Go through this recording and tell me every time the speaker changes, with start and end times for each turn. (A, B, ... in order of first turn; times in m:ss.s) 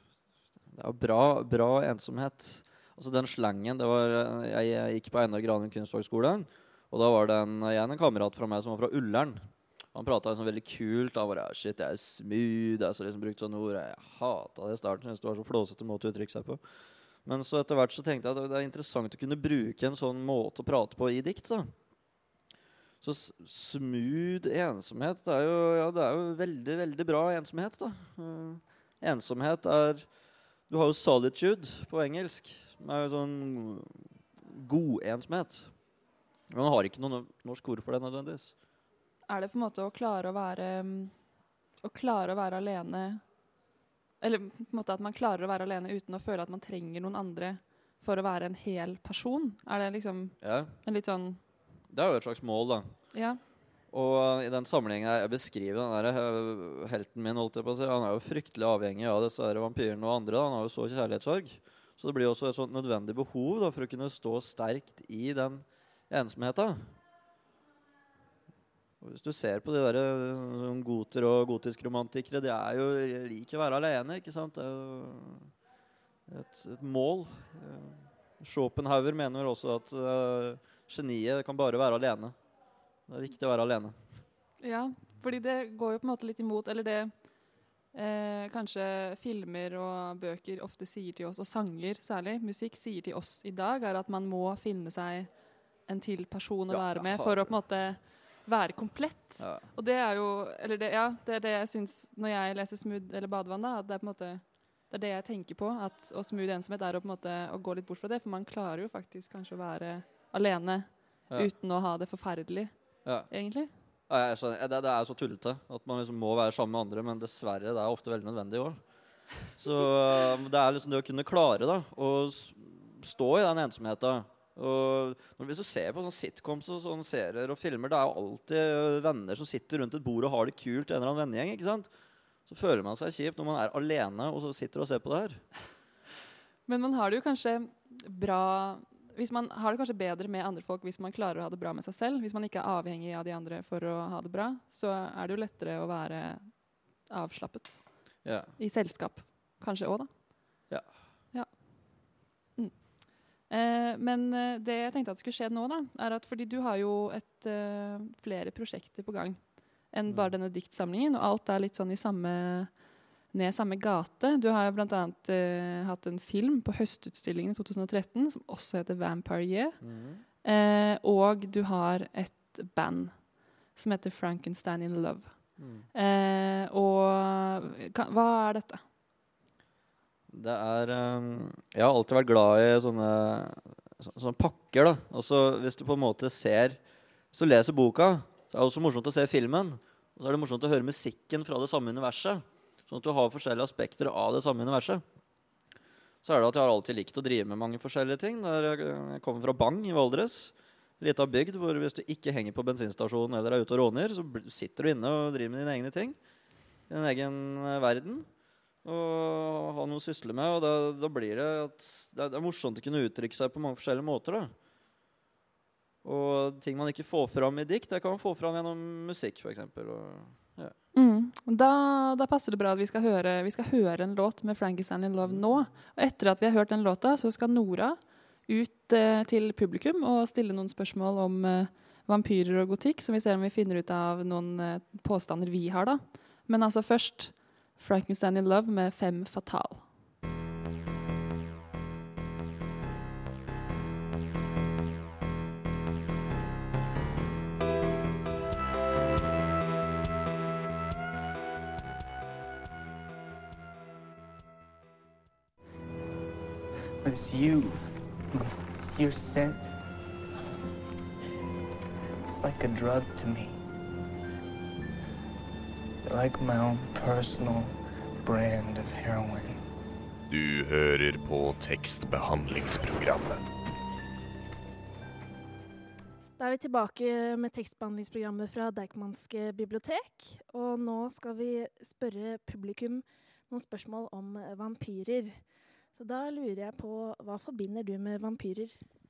0:00.7-0:16.6 A
0:17.2-0:21.7 A
0:23.0-0:30.1 A
0:30.7-0:35.8 A
0:36.5-0:38.5 A
0:39.3-0:41.2 B
0:41.8-0:43.2 B
0:44.2-0:51.4 B
0:50.4-0:50.8 A
0:51.9-0:53.0 A
0:53.1-0:53.4 B
0:53.9-1:07.0 A
1:09.0-1:15.5 A
1:16.3-1:22.4 A
1:23.1-1:24.2 A
1:24.6-1:27.4 B
1:27.9-1:53.7 B
1:36.7-1:37.6 A
1:39.4-1:39.7 A
1:53.0-1:53.3 A
1:54.1-1:58.8 A
1:59.5-2:11.9 A
2:12.5-2:15.5 A
2:16.7-2:30.7 B
2:28.2-2:28.5 A
2:31.3-2:49.8 B
2:40.1-2:40.3 A
2:49.8-2:50.2 A
2:50.4-2:58.8 B
2:55.6-2:55.9 A
3:00.3-3:06.8 A
3:07.3-3:15.0 A
3:16.2-3:26.2 A
3:26.9-3:28.3 A
3:28.8-3:34.5 A
3:36.0-3:40.8 A
3:40.9-3:59.9 B
3:45.2-3:45.5 A
4:17.0-4:19.7 C
4:22.3-4:23.6 C
4:26.1-4:29.6 C
4:30.3-4:33.4 D
4:36.4-4:45.4 E
4:46.0-4:48.8 E